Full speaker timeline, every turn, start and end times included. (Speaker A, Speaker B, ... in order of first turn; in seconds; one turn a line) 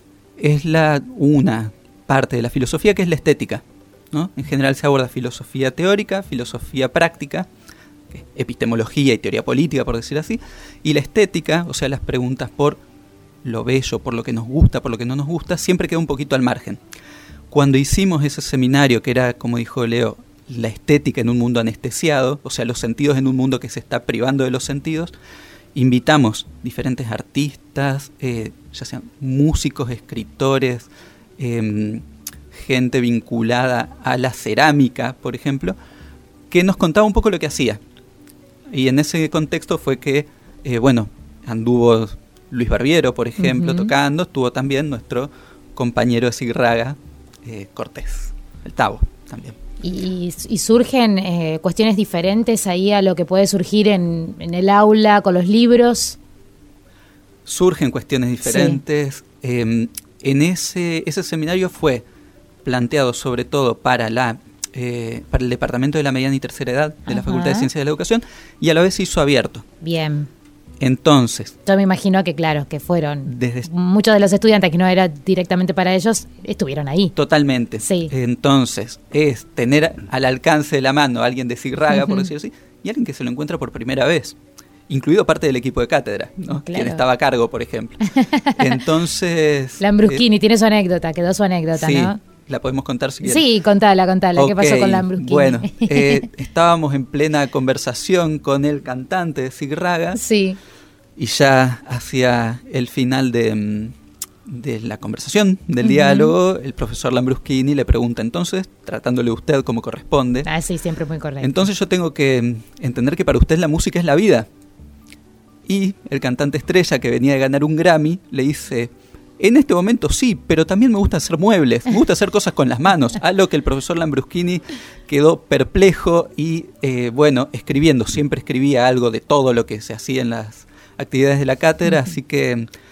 Speaker A: 0.4-7.5
Speaker A: 8.1-12.8
Speaker A: 13.4-16.8
Speaker A: 17.5-25.1
Speaker A: 25.7-35.8
Speaker A: 36.5-37.8
Speaker A: 38.7-49.5
Speaker B: 43.4-43.9
Speaker B: 49.8-56.2
Speaker A: 57.5-62.0
Speaker B: 58.4-58.8
Speaker A: 62.6-69.6
Speaker B: 67.1-67.7
Speaker B: 69.8-70.3
Speaker A: 70.8-71.5
Speaker B: 71.7-77.1
Speaker A: 73.2-73.7
Speaker A: 77.2-84.3
Speaker B: 77.8-78.1
Speaker B: 81.9-82.3
Speaker A: 84.9-88.0
Speaker B: 86.7-87.0
Speaker B: 88.2-88.8
Speaker A: 88.6-90.2
Speaker B: 89.8-92.2
Speaker A: 91.7-93.4
Speaker B: 93.2-96.2
Speaker A: 94.3-100.2
Speaker B: 100.2-100.6
Speaker A: 101.2-103.9
Speaker A: 104.5-110.5
Speaker B: 105.8-106.3
Speaker B: 110.5-111.6
Speaker A: 111.4-114.5
Speaker A: 115.7-132.7
Speaker B: 131.9-132.1